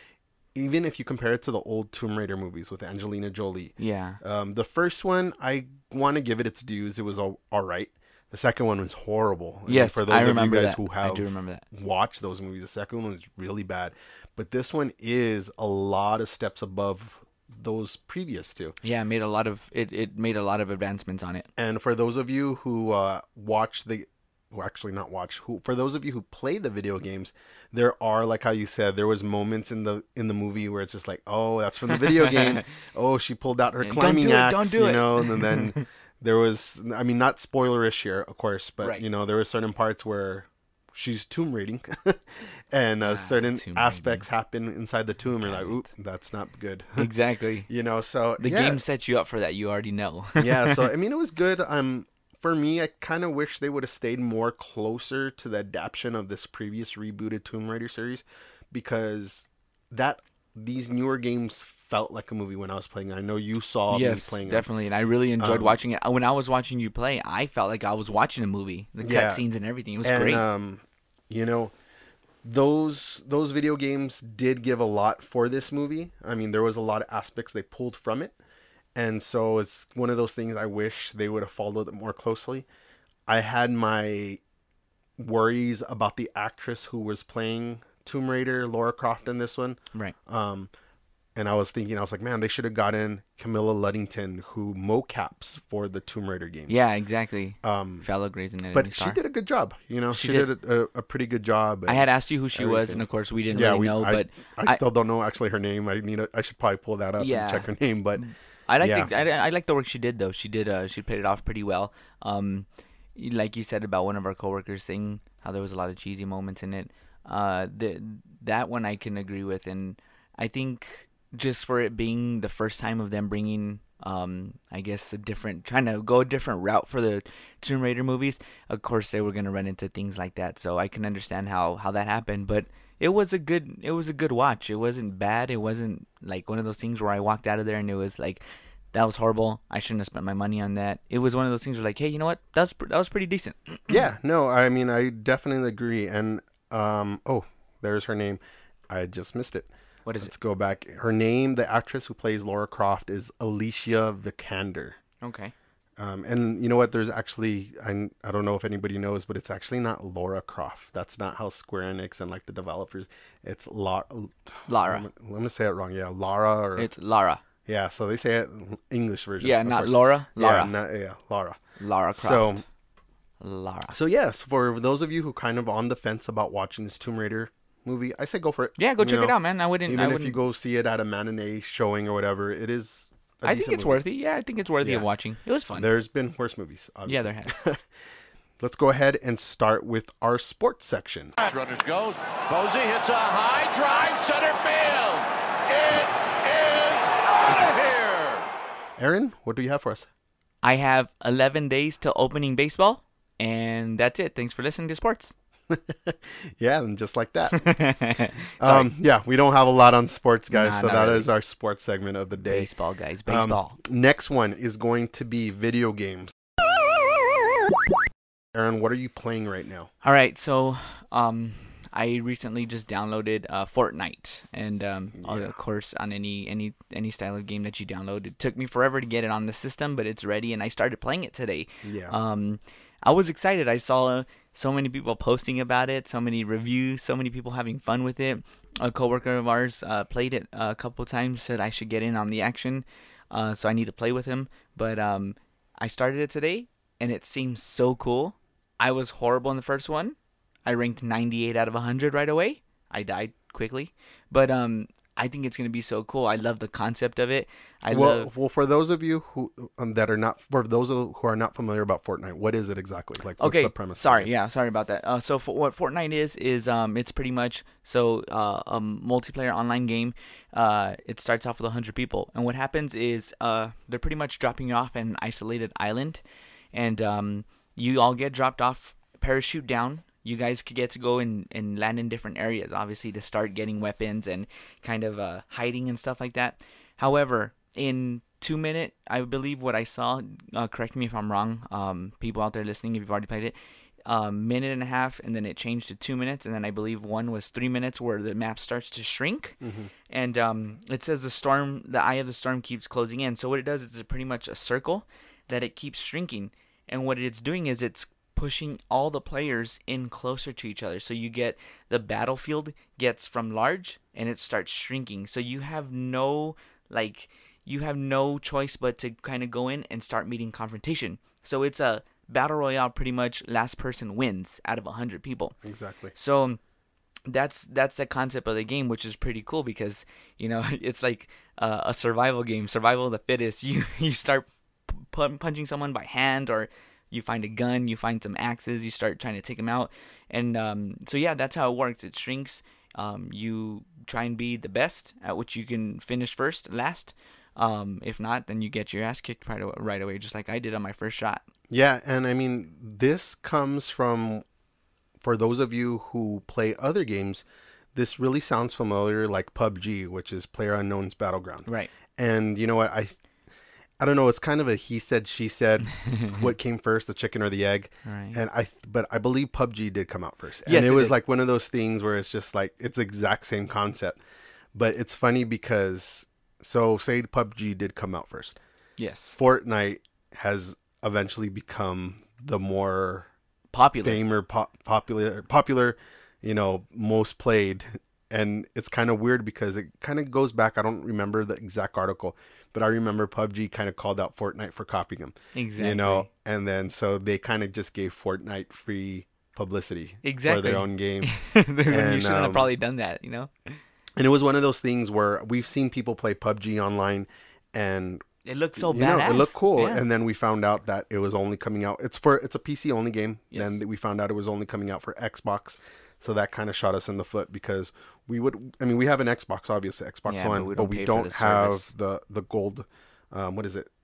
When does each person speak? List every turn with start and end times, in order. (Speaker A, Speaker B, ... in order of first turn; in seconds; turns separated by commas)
Speaker A: 0.6-18.8, Speaker B: 3.8-4.2, Speaker B: 9.7-11.6, Speaker B: 18.8-21.5, Speaker A: 21.6-47.1, Speaker B: 31.9-32.6, Speaker B: 33.8-35.8, Speaker B: 43.0-44.3, Speaker B: 45.3-45.9, Speaker B: 47.0-47.7, Speaker A: 47.7-48.8, Speaker B: 48.4-50.9, Speaker A: 50.4-64.7, Speaker B: 63.9-70.4, Speaker A: 65.4-65.8, Speaker A: 69.0-69.4, Speaker A: 70.0-71.7, Speaker A: 72.4-78.3, Speaker A: 79.0-82.7, Speaker A: 83.3-84.4, Speaker A: 85.2-90.7, Speaker A: 91.3-96.8, Speaker B: 96.7-99.2, Speaker A: 97.6-98.1, Speaker A: 98.7-108.2, Speaker B: 100.1-100.5, Speaker B: 101.9-104.8, Speaker B: 107.2-138.4, Speaker A: 108.8-109.1, Speaker B: 138.9-144.0, Speaker A: 143.9-149.7, Speaker B: 150.1-150.3, Speaker A: 150.2-155.0, Speaker B: 155.2-155.5, Speaker A: 156.0-166.9, Speaker B: 164.7-165.1, Speaker B: 166.8-167.4, Speaker A: 167.7-171.6, Speaker B: 169.4-170.7, Speaker B: 171.8-172.6, Speaker A: 172.1-172.6, Speaker B: 173.4-173.9, Speaker A: 173.9-184.0, Speaker B: 178.8-180.4, Speaker B: 183.4-185.9, Speaker A: 185.7-187.8, Speaker B: 187.1-187.6, Speaker A: 188.6-191.3, Speaker C: 191.4-198.5, Speaker A: 199.0-200.1, Speaker B: 200.6-205.3, Speaker A: 205.7-207.8, Speaker B: 207.5-208.9, Speaker A: 208.6-212.7, Speaker B: 210.5-211.3, Speaker B: 212.4-213.8, Speaker A: 213.3-216.3, Speaker A: 218.5-219.9, Speaker B: 220.0-258.3, Speaker A: 225.2-225.5, Speaker A: 231.8-232.2, Speaker A: 257.9-264.3, Speaker B: 263.4-276.2, Speaker B: 276.7-299.6, Speaker A: 299.6-299.9, Speaker B: 300.1-325.6, Speaker A: 325.6-326.1, Speaker B: 326.1-326.6, Speaker B: 327.3-351.5, Speaker A: 351.7-354.4, Speaker A: 355.2-363.1, Speaker B: 361.7-361.9, Speaker A: 364.0-374.2, Speaker B: 365.9-366.5, Speaker B: 368.1-368.4, Speaker B: 370.7-371.1, Speaker A: 374.7-378.6, Speaker B: 379.0-379.4, Speaker A: 379.4-383.3, Speaker B: 383.7-384.2, Speaker A: 384.0-401.3, Speaker B: 395.6-396.3, Speaker B: 400.2-403.8, Speaker A: 401.9-402.7, Speaker A: 404.2-408.2, Speaker B: 408.4-410.0, Speaker A: 408.8-423.9, Speaker B: 413.5-413.8, Speaker B: 420.3-421.9